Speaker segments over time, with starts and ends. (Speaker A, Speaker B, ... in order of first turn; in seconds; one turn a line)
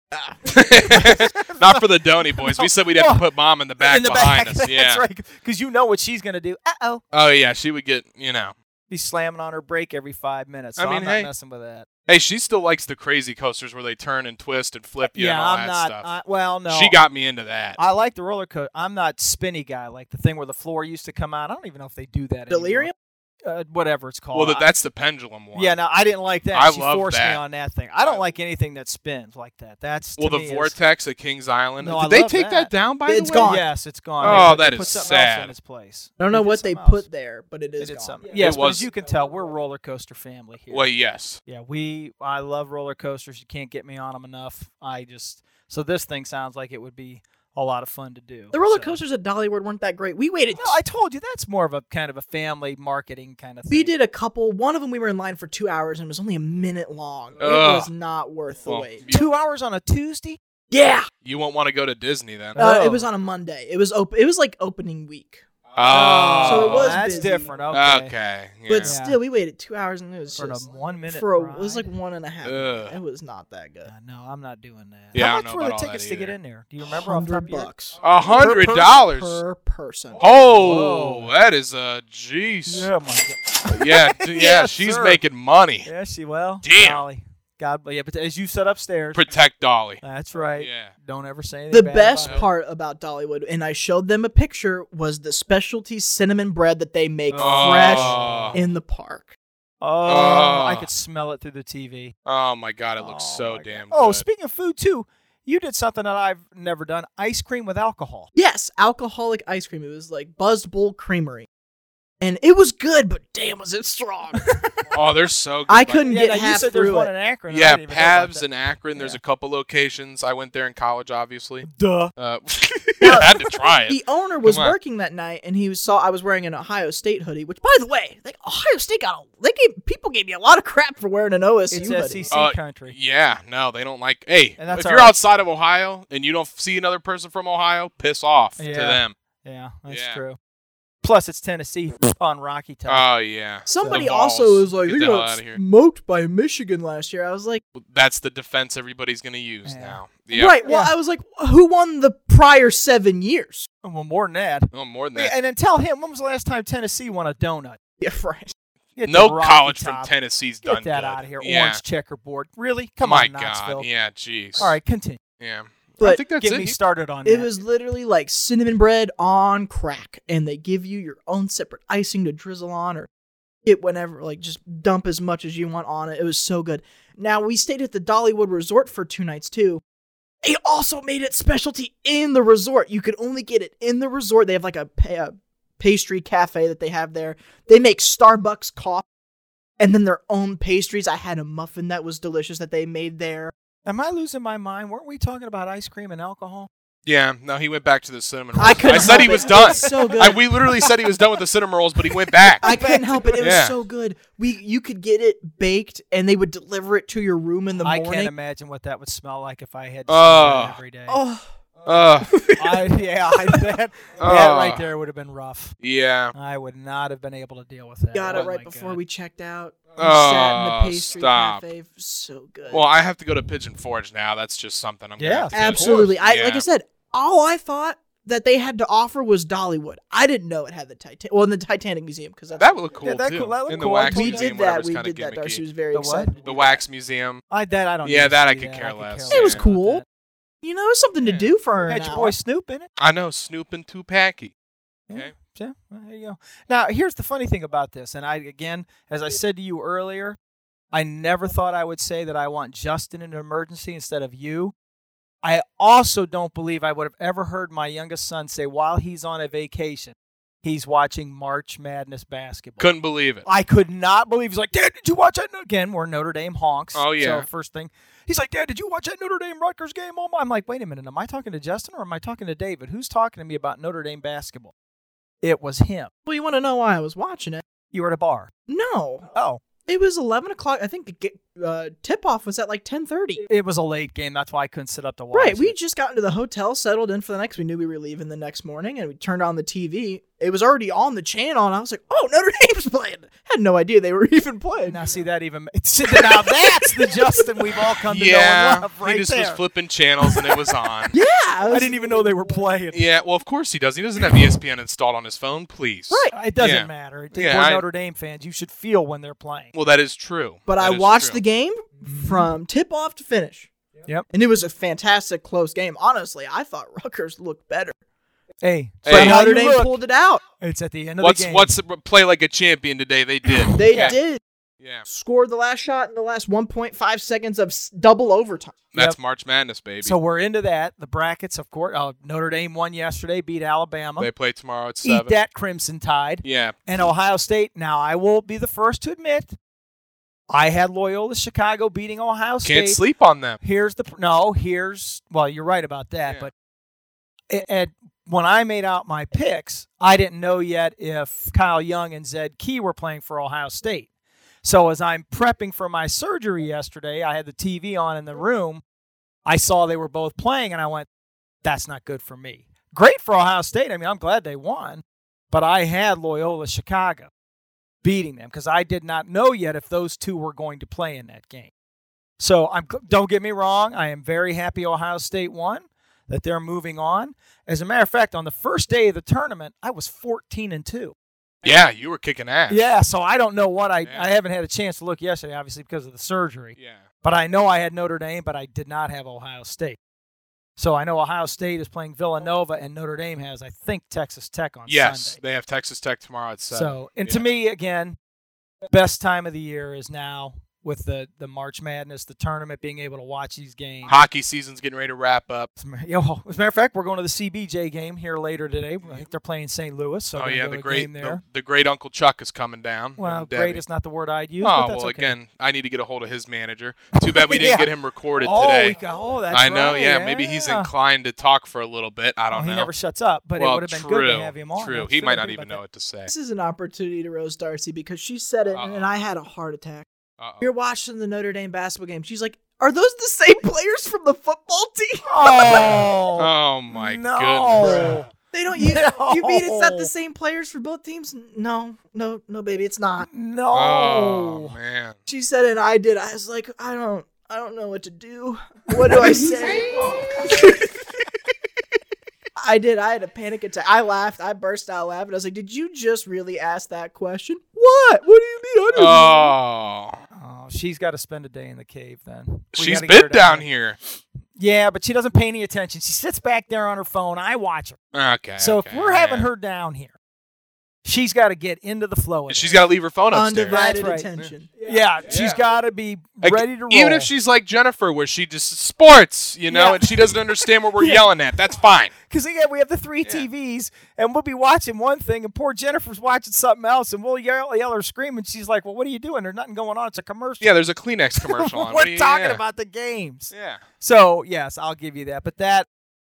Speaker A: 0.1-0.4
Speaker B: 0.5-5.0
Speaker C: 0.9-3.2
Speaker C: 3.8-7.0
Speaker B: 7.1-8.6
Speaker C: 8.9-11.9
Speaker B: 10.8-11.3
Speaker B: 12.1-16.1
Speaker C: 15.1-17.0
Speaker B: 16.7-17.8
Speaker C: 17.8-22.9
Speaker A: 22.5-22.9
Speaker C: 23.4-24.7
Speaker B: 24.3-25.8
Speaker C: 25.5-30.8
Speaker B: 26.5-27.4
Speaker B: 28.0-28.3
Speaker B: 30.2-33.5
Speaker C: 31.8-32.7
Speaker A: 33.1-33.7
Speaker C: 33.4-37.0
Speaker A: 34.2-34.5
Speaker B: 34.2-35.5
Speaker A: 36.2-38.3
Speaker C: 37.8-40.9
Speaker B: 38.4-38.9
Speaker B: 40.7-41.4
Speaker C: 41.5-49.0
Speaker A: 48.5-50.8
Speaker C: 50.6-53.9
Speaker A: 53.7-59.0
Speaker B: 57.4-57.9
Speaker B: 58.7-59.3
Speaker C: 59.1-60.4
Speaker A: 60.7-61.1
Speaker B: 61.2-62.6
Speaker C: 62.5-63.0
Speaker A: 62.6-65.4
Speaker B: 65.7-67.0
Speaker C: 65.9-68.1
Speaker A: 66.4-67.5
Speaker B: 67.7-68.9
Speaker A: 68.7-73.9
Speaker C: 68.8-69.2
Speaker C: 70.4-71.9
Speaker B: 72.4-73.0
Speaker C: 73.9-77.7
Speaker B: 75.1-76.3
Speaker A: 76.9-80.2
Speaker B: 78.0-79.4
Speaker B: 80.2-82.9
Speaker C: 80.5-81.3
Speaker C: 82.7-85.2
Speaker B: 83.7-85.9
Speaker C: 85.8-89.2
Speaker B: 86.6-87.0
Speaker B: 89.1-90.0
Speaker C: 90.0-92.4
Speaker B: 90.6-90.9
Speaker A: 91.7-99.3
Speaker C: 97.3-98.7
Speaker B: 97.4-98.6
Speaker C: 99.8-102.2
Speaker B: 100.1-100.9
Speaker B: 102.3-104.2
Speaker C: 103.0-108.3
Speaker A: 108.3-111.5
Speaker A: 112.2-114.5
Speaker B: 114.9-116.0
Speaker A: 115.7-117.1
Speaker C: 116.1-119.2
Speaker B: 117.5-124.8
Speaker C: 121.6-122.1
Speaker C: 122.9-123.3
Speaker A: 123.0-132.3
Speaker C: 131.7-132.9
Speaker B: 132.3-139.2
Speaker C: 134.6-135.2
Speaker C: 138.6-140.4
Speaker B: 139.9-140.2
Speaker C: 141.0-143.1
Speaker B: 142.9-145.6
Speaker A: 143.7-147.6
Speaker C: 143.8-144.1
Speaker B: 147.8-150.6
Speaker C: 149.7-150.0
Speaker A: 150.3-153.7
Speaker C: 150.7-150.9
Speaker C: 153.8-157.8
Speaker B: 154.7-155.3
Speaker A: 158.0-158.5
Speaker C: 159.0-160.1
Speaker B: 159.0-161.8
Speaker C: 160.6-163.9
Speaker B: 163.0-164.7
Speaker C: 164.6-165.2
Speaker B: 165.4-166.8
Speaker A: 166.0-166.2
Speaker C: 166.1-167.5
Speaker A: 167.2-173.1
Speaker A: 173.7-179.8
Speaker A: 180.4-189.1
Speaker A: 189.8-193.5
Speaker C: 193.9-196.7
Speaker B: 197.1-202.6
Speaker A: 198.6-200.4
Speaker C: 198.8-200.9
Speaker C: 202.6-203.5
Speaker A: 202.6-208.3
Speaker B: 203.4-203.8
Speaker C: 207.8-211.2
Speaker B: 210.1-210.8
Speaker A: 211.1-211.5
Speaker B: 211.8-212.4
Speaker A: 212.3-212.7
Speaker C: 212.6-215.8
Speaker B: 214.2-214.9
Speaker B: 215.8-216.3
Speaker C: 216.3-219.0
Speaker A: 218.1-222.8
Speaker B: 220.0-221.7
Speaker B: 222.7-226.7
Speaker C: 225.2-226.1
Speaker A: 225.5-232.7
Speaker B: 232.6-235.6
Speaker C: 233.0-234.5
Speaker A: 234.1-236.6
Speaker C: 235.9-236.3
Speaker B: 236.4-237.4
Speaker C: 237.5-240.0
Speaker B: 238.0-239.6
Speaker A: 239.3-240.0
Speaker A: 240.6-242.4
Speaker C: 241.3-242.9
Speaker B: 243.0-244.5
Speaker C: 245.1-250.4
Speaker C: 250.9-254.7
Speaker C: 255.4-262.9
Speaker B: 262.8-263.4
Speaker C: 263.4-274.7
Speaker B: 266.9-267.5
Speaker C: 275.4-276.1
Speaker A: 276.3-277.6
Speaker C: 277.9-278.5
Speaker A: 278.7-279.3
Speaker C: 279.3-279.6
Speaker A: 279.9-283.4
Speaker C: 283.5-285.7
Speaker A: 285.3-295.0
Speaker C: 294.9-299.6
Speaker A: 296.1-297.4
Speaker B: 298.1-301.1
Speaker A: 301.1-302.1
Speaker C: 301.7-303.0
Speaker B: 302.9-307.8
Speaker A: 306.1-306.4
Speaker C: 306.3-309.7
Speaker B: 309.7-311.4
Speaker A: 310.7-313.7
Speaker C: 312.0-312.5
Speaker A: 314.3-318.0
Speaker C: 318.6-320.0
Speaker B: 319.0-319.4
Speaker A: 319.1-320.4
Speaker C: 320.6-321.8
Speaker B: 321.2-324.2
Speaker A: 323.8-324.4
Speaker C: 323.8-324.2
Speaker B: 324.8-325.1
Speaker A: 325.1-328.8
Speaker B: 328.9-330.2
Speaker C: 330.0-334.3
Speaker B: 334.2-335.4
Speaker C: 335.0-339.6
Speaker B: 336.4-336.8
Speaker C: 340.5-343.0
Speaker B: 342.6-343.6
Speaker C: 343.6-346.5
Speaker C: 347.5-354.1
Speaker C: 354.6-358.8
Speaker C: 359.5-361.1
Speaker C: 361.6-367.3
Speaker C: 368.0-371.7
Speaker C: 372.4-381.1
Speaker B: 381.6-382.9
Speaker C: 382.7-390.0
Speaker B: 384.0-384.3
Speaker B: 386.8-387.1
Speaker C: 390.8-395.4
Speaker B: 394.9-397.4
Speaker C: 396.7-398.2
Speaker C: 398.9-404.2
Speaker B: 404.1-405.7
Speaker C: 405.8-411.4
Speaker B: 410.4-413.8
Speaker C: 413.2-415.4
Speaker B: 414.6-419.0
Speaker C: 417.2-417.9
Speaker C: 418.4-420.9
Speaker B: 419.5-422.9
Speaker C: 422.5-425.8
Speaker B: 423.6-426.3
Speaker A: 426.3-430.1
Speaker B: 428.8-429.1
Speaker B: 430.4-430.7
Speaker A: 430.6-436.1
Speaker C: 435.3-440.1
Speaker B: 435.7-438.1
Speaker A: 437.8-443.3
Speaker C: 443.2-444.8
Speaker B: 443.7-445.2
Speaker A: 445.3-451.0
Speaker C: 449.1-449.5
Speaker A: 452.6-459.5
Speaker B: 458.9-460.2
Speaker C: 460.3-463.7
Speaker B: 462.7-464.0
Speaker C: 464.6-468.0
Speaker B: 468.1-469.5
Speaker C: 468.6-470.1
Speaker C: 471.0-472.8
Speaker B: 472.5-473.9
Speaker A: 473.3-474.7
Speaker C: 473.7-477.3
Speaker B: 475.3-475.6
Speaker B: 476.4-482.1
Speaker C: 479.7-480.4
Speaker C: 480.9-481.3
Speaker C: 482.3-490.7
Speaker B: 490.6-492.6
Speaker C: 491.4-495.9
Speaker B: 493.5-493.8